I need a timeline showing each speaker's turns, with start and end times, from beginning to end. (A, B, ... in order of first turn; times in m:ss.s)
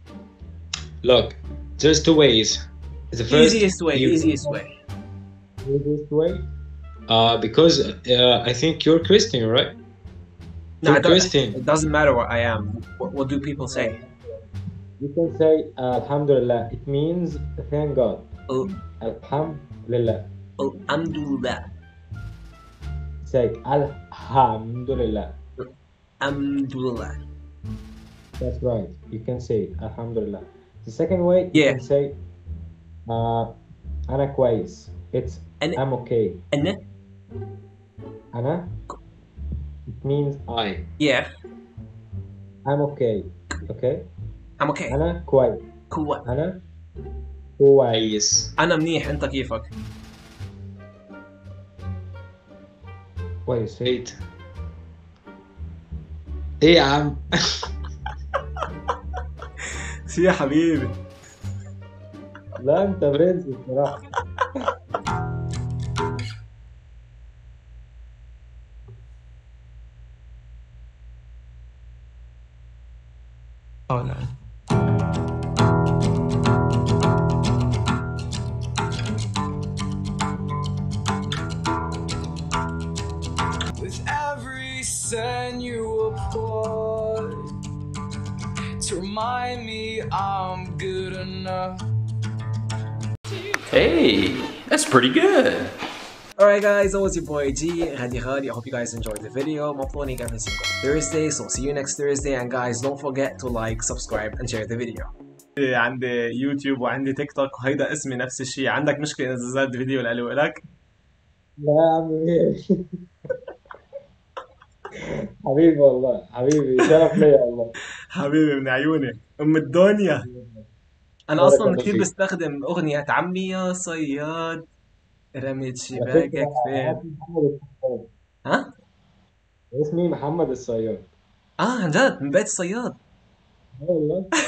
0:01.0-0:04.6 A
0:03.3-0:04.7 B
0:05.6-0:06.5 A
0:07.1-0:09.8 A
0:10.8-0:14.0 B
0:10.8-0:11.6 A
0:13.7-0:14.2 A
0:15.0-0:18.3 A
0:18.5-0:18.8 B
0:19.0-0:20.3 A
0:20.6-0:21.7 B
0:23.2-0:25.4 A
0:26.2-0:27.2 B
0:28.4-0:32.2 A
0:31.5-0:31.8 B
0:33.1-0:33.6 A
0:34.1-0:36.4 A
0:36.5-0:36.8 B
0:38.3-0:38.7 A
0:39.9-0:40.9 A
0:41.0-0:41.3 B
0:42.6-0:44.1 A
0:44.6-0:45.0 B
0:44.9-0:45.6 A
0:45.9-0:46.2 B
0:46.2-0:46.6 A
0:47.6-0:48.5 A
0:48.6-0:49.7 B
0:53.5-0:54.2 A
0:56.6-0:57.2 A
1:00.1-1:01.0 B
1:02.6-1:04.0 A
1:23.8-1:27.4 C
1:28.8-1:31.8 C
1:33.7-1:35.7 D
1:36.4-1:50.6 B
1:51.6-1:52.6 A
1:55.4-1:57.7 A
1:58.1-2:00.3 B
2:00.2-2:00.7 A
2:01.3-2:04.6 B
2:01.4-2:02.1 A
2:05.3-2:07.0 B
2:05.9-2:08.1 A
2:09.7-2:11.1 A
2:11.6-2:13.0 B
2:13.8-2:14.3 A